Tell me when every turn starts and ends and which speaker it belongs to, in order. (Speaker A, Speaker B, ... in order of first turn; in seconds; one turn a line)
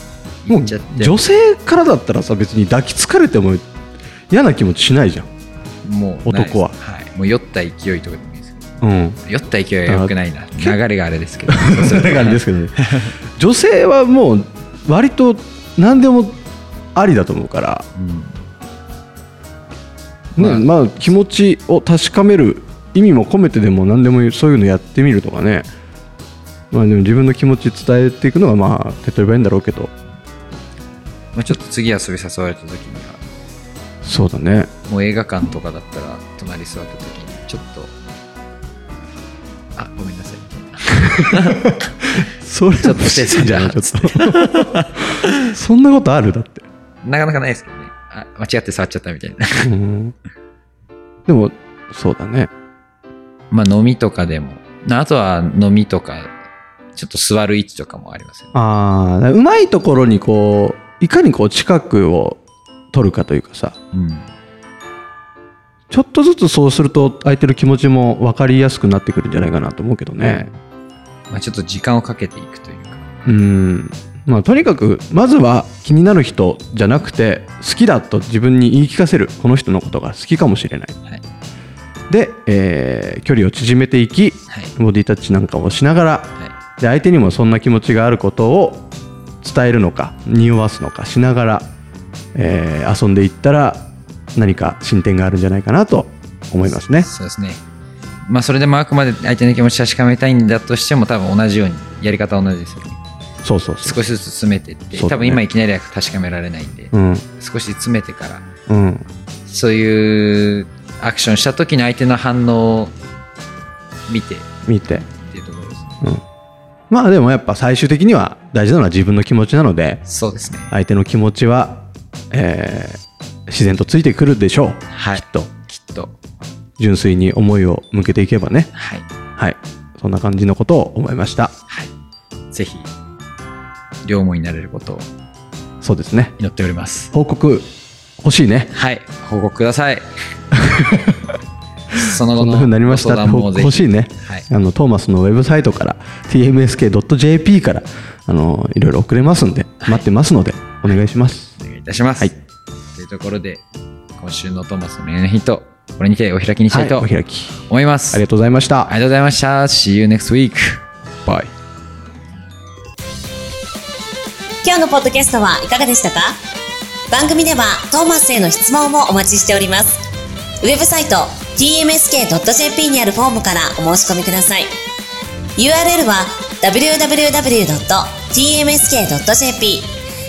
Speaker A: 0.4-1.2
Speaker B: 0.5-3.6
Speaker B: 4.3-5.3
Speaker A: 5.8-8.6
Speaker B: 6.2-6.7
Speaker B: 8.8-9.2
Speaker A: 9.2-13.1
Speaker B: 9.9-10.8
Speaker B: 11.5-16.4
Speaker B: 16.9-17.8
Speaker A: 17.9-18.4
Speaker B: 20.4-25.7
Speaker A: 20.4-20.7
Speaker B: 26.7-29.9
Speaker A: 31.3-33.2
Speaker B: 34.0-34.7
Speaker A: 34.9-37.9
Speaker A: 39.8-41.8
Speaker B: 41.3-44.9
Speaker A: 42.8-45.5
Speaker B: 45.4-46.6
Speaker A: 47.0-49.7
Speaker B: 49.6-50.1
Speaker B: 51.3-52.5
Speaker A: 53.5-56.3
Speaker A: 56.9-58.5
Speaker B: 58.5-62.4
Speaker B: 62.9-63.7
Speaker A: 63.9-64.3
Speaker B: 65.9-70.5
Speaker A: 71.3-73.1
Speaker B: 73.2-80.9
Speaker B: 82.1-88.9
Speaker B: 89.4-91.7
Speaker B: 92.3-97.1
Speaker A: 96.9-97.6
Speaker A: 98.3-103.0
Speaker B: 103.4-104.0
Speaker A: 103.8-108.4
Speaker B: 104.9-105.4
Speaker B: 106.9-107.2
Speaker B: 108.7-109.0
Speaker A: 109.5-112.9
Speaker A: 114.1-114.5
Speaker B: 114.7-115.0
Speaker A: 115.2-116.0
Speaker B: 116.9-120.0
Speaker A: 120.0-120.7
Speaker B: 120.7-125.5
Speaker A: 124.9-126.1
Speaker B: 126.8-128.7
Speaker A: 128.7-129.1
Speaker B: 129.4-131.5
Speaker A: 132.5-132.9
Speaker A: 134.0-135.1
Speaker B: 135.8-136.3
Speaker A: 136.4-137.1
Speaker B: 137.1-137.7
Speaker B: 138.2-138.7
Speaker A: 138.7-140.1
Speaker B: 140.5-141.2
Speaker A: 141.9-144.4
Speaker B: 142.3-151.5
Speaker A: 149.8-150.1
Speaker A: 150.8-152.3
Speaker A: 152.9-153.6
Speaker A: 154.2-157.1
Speaker B: 156.7-157.6
Speaker A: 157.7-158.2
Speaker B: 158.1-158.9
Speaker A: 158.8-160.8
Speaker C: 164.6-166.4
Speaker C: 167.1-170.0
Speaker C: 170.6-174.7
Speaker C: 175.6-179.9